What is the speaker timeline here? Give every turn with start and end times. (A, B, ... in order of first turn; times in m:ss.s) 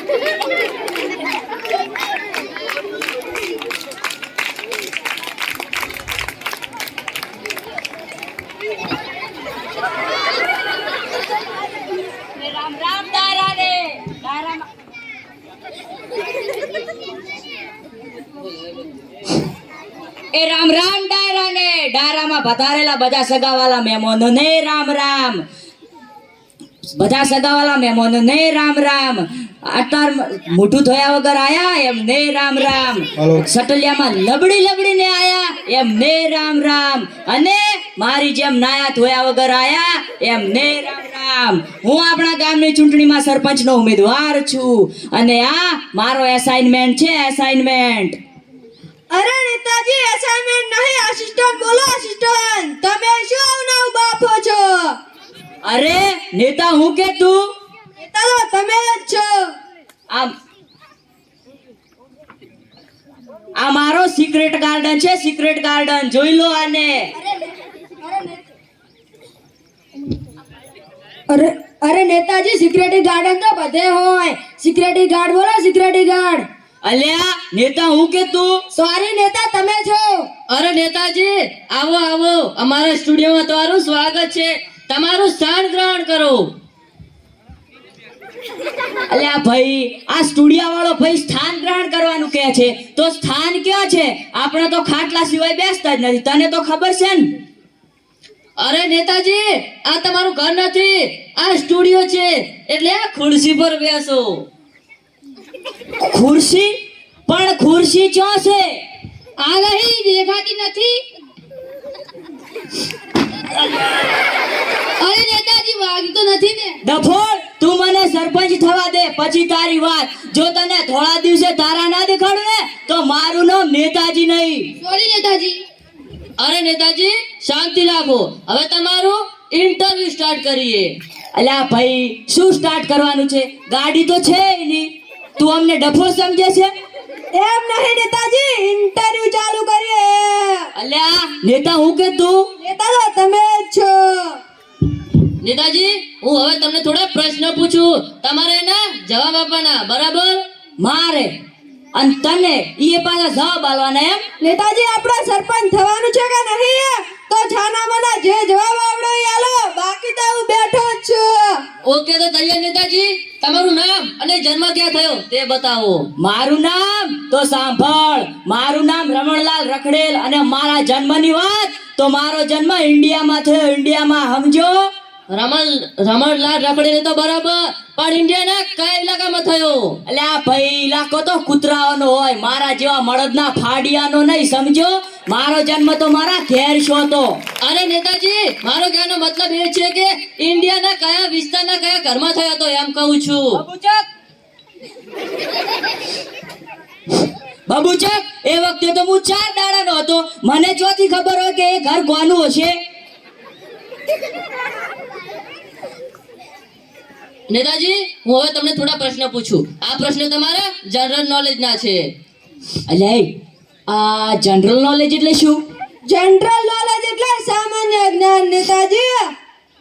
0:12.4-0:14.7 A
0:20.3-0:25.4 A
0:27.0-0:48.2 A
0:49.1-0:54.8 B
0:55.6-0:57.5 A
0:58.0-0:59.4 B
1:03.6-1:07.1 A
1:07.2-1:08.4 B
1:11.3-1:16.5 B
1:16.8-1:18.6 A
1:18.7-1:20.3 B
1:20.5-1:26.5 C
1:29.1-1:37.3 A
1:38.6-1:44.5 C
1:46.0-1:46.7 A
1:47.3-1:48.8 A
1:49.4-1:51.0 B
1:55.0-1:56.8 B
1:56.8-2:04.7 A
2:04.8-2:05.6 B
2:06.4-2:10.9 C
2:11.4-2:16.7 A
2:17.3-2:20.7 B
2:20.8-2:22.5 A
2:22.6-2:24.4 B
2:25.4-2:30.4 C
2:30.8-2:31.3 A
2:32.0-2:34.2 A
2:34.4-2:41.6 B
2:41.8-2:46.1 C
2:46.2-2:54.9 A
2:55.3-3:00.0 C
3:00.1-3:07.4 A
3:07.6-3:13.6 C
3:17.7-3:22.8 A
3:27.5-3:32.1 C
3:32.9-3:33.3 A
3:33.9-3:35.6 A
3:36.1-3:39.3 B